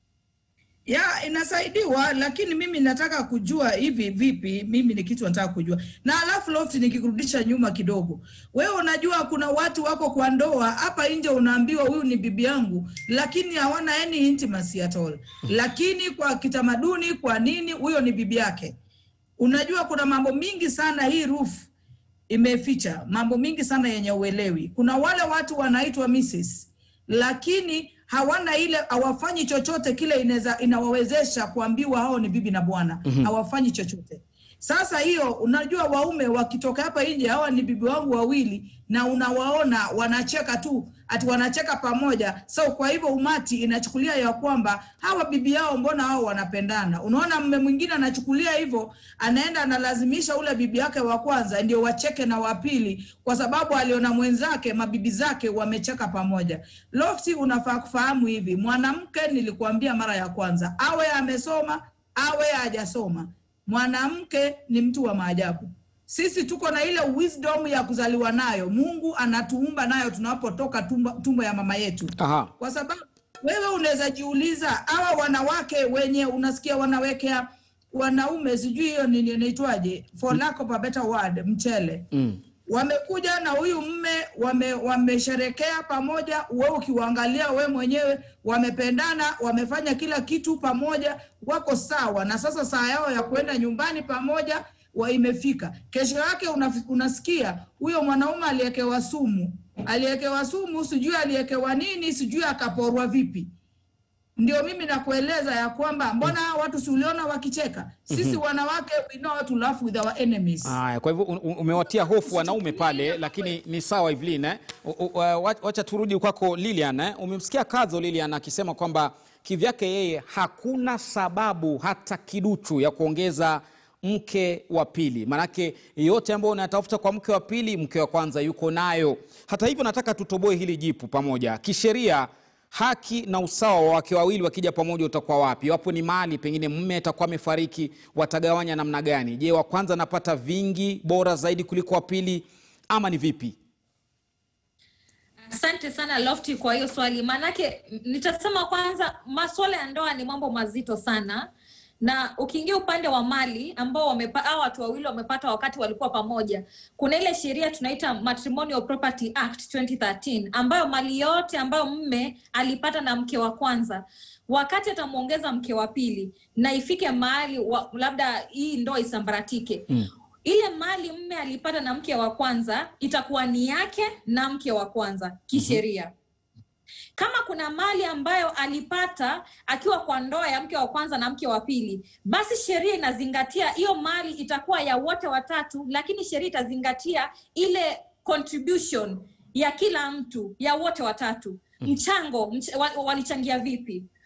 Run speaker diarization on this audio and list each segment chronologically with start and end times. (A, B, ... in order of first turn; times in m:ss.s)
0:00.9-0:18.7 A
0:19.4-0:21.7 A
0:22.3-1:22.1 A
1:12.2-1:12.5 B
1:22.1-1:22.4 B
1:22.7-1:43.5 A
1:44.4-1:50.8 A
1:48.1-1:48.4 B
1:50.6-2:23.6 B
1:52.0-1:53.2 A
2:25.5-2:31.5 C
2:32.0-2:49.9 C
2:50.4-2:56.1 C
2:55.5-2:55.8 B
2:57.2-3:14.1 C